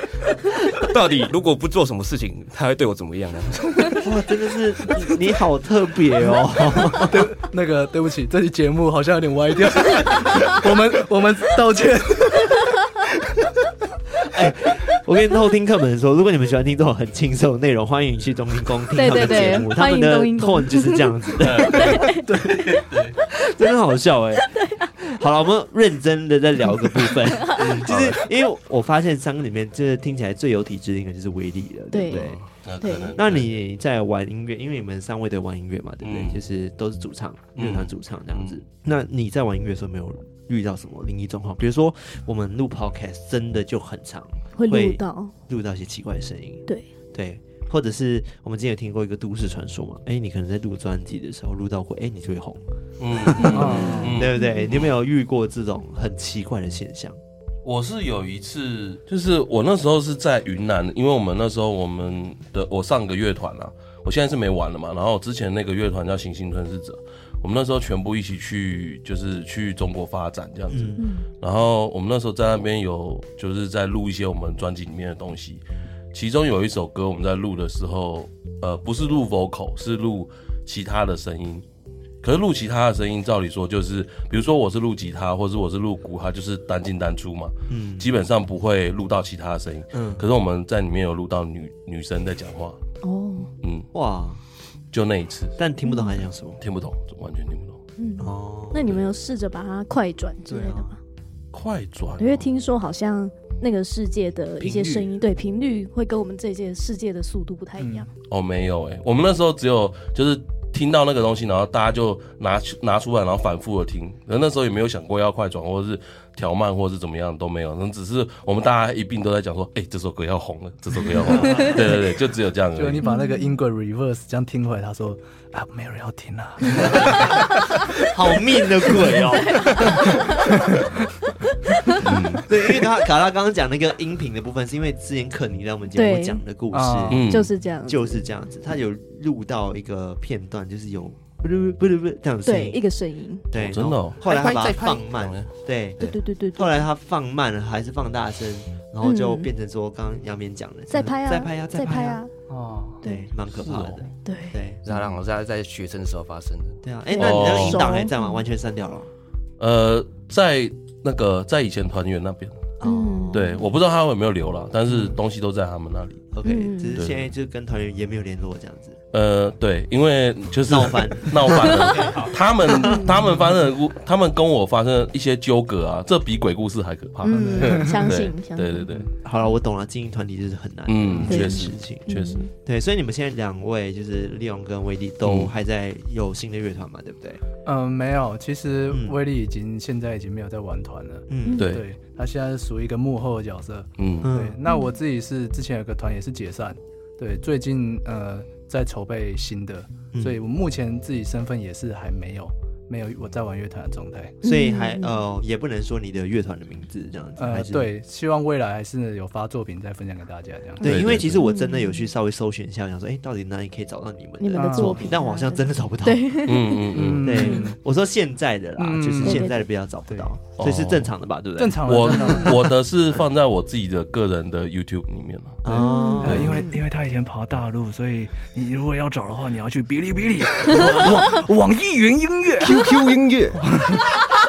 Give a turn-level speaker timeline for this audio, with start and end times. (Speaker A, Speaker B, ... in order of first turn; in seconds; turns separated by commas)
Speaker A: 0.7-4.0, Speaker B: 4.0-7.3, Speaker C: 6.9-12.7, Speaker B: 14.2-22.1, Speaker D: 18.9-22.3, Speaker E: 21.4-23.1, Speaker B: 23.3-32.4, Speaker D: 24.4-24.9, Speaker D: 27.3-27.6, Speaker E: 27.6-28.1, Speaker D: 31.9-33.1, Speaker A: 32.1-32.4, Speaker E: 32.6-33.5, Speaker B: 33.1-52.6, Speaker E: 36.0-36.4, Speaker E: 37.5-38.6, Speaker D: 44.5-45.3, Speaker E: 53.0-54.9, Speaker B: 53.2-57.2, Speaker C: 53.5-54.2, Speaker D: 53.6-54.8, Speaker E: 57.6-75.6, Speaker B: 70.7-71.0, Speaker D: 71.0-71.2, Speaker E: 76.1-81.6, Speaker E: 82.2-92.8, Speaker B: 87.7-88.1, Speaker B: 89.9-90.2, Speaker D: 93.0-93.5, Speaker E: 93.6-93.9, Speaker B: 93.9-94.4, Speaker E: 94.9-95.6, Speaker B: 95.6-96.6, Speaker D: 95.8-96.2, Speaker E: 96.6-97.8, Speaker D: 98.0-101.0, Speaker B: 98.2-99.0, Speaker B: 100.5-100.9, Speaker E: 101.5-102.5, Speaker D: 102.2-108.1, Speaker B: 104.6-105.1, Speaker C: 107.8-108.1, Speaker E: 108.3-123.0, Speaker B: 121.3-121.8, Speaker D: 121.4-121.7, Speaker C: 122.7-127.4, Speaker D: 123.0-123.6, Speaker B: 126.8-127.3, Speaker B: 128.0-130.5, Speaker D: 129.3-130.5, Speaker D: 131.7-132.0, Speaker E: 132.0-132.4, Speaker B: 132.4-137.3, Speaker D: 135.9-136.4, Speaker C: 136.7-137.2, Speaker E: 137.1-137.5, Speaker D: 137.1-138.2, Speaker B: 137.8-142.8, Speaker D: 142.4-143.5, Speaker B: 143.5-152.2, Speaker E: 143.5-144.2, Speaker A: 144.2-146.2, Speaker D: 146.0-146.8, Speaker D: 149.0-149.5, Speaker D: 150.9-152.3, Speaker C: 152.5-153.0, Speaker D: 153.0-153.3, Speaker B: 153.0-154.8, Speaker E: 153.6-154.0, Speaker D: 154.2-154.6, Speaker A: 154.8-156.8, Speaker B: 156.8-159.1, Speaker D: 157.1-158.3, Speaker E: 157.2-157.8, Speaker E: 159.6-162.6, Speaker B: 162.8-163.6, Speaker D: 162.8-163.6, Speaker E: 163.3-166.2, Speaker B: 166.3-169.0, Speaker D: 166.4-167.0, Speaker E: 166.9-167.3, Speaker E: 169.1-179.1, Speaker B: 170.7-173.1, Speaker A: 172.0-172.2, Speaker D: 172.8-173.1, Speaker D: 177.2-178.9, Speaker C: 177.3-178.0, Speaker B: 179.2-182.1, Speaker E: 180.9-182.4, Speaker D: 181.3-182.5, Speaker B: 182.6-187.4, Speaker E: 185.2-185.5, Speaker C: 187.6-204.4, Speaker B: 188.9-189.2, Speaker B: 191.3-191.6, Speaker D: 191.4-191.8, Speaker E: 194.0-194.3, Speaker B: 194.2-194.6, Speaker D: 194.6-194.9, Speaker B: 200.1-200.4, Speaker D: 204.4-205.2, Speaker B: 204.4-207.9, Speaker C: 207.4-210.9, Speaker B: 210.8-216.5, Speaker E: 210.8-211.4, Speaker D: 211.4-212.1, Speaker D: 214.4-217.7, Speaker C: 214.6-215.1, Speaker E: 216.4-217.5, Speaker C: 216.9-217.8, Speaker B: 217.2-222.5, Speaker C: 218.8-219.5, Speaker D: 219.2-219.6, Speaker E: 220.6-221.1, Speaker C: 221.6-222.7, Speaker E: 221.8-225.6, Speaker B: 225.6-226.7, Speaker C: 225.7-232.9, Speaker D: 225.7-226.7, Speaker E: 226.2-226.6, Speaker B: 230.7-231.2, Speaker B: 232.6-234.1, Speaker C: 233.5-234.2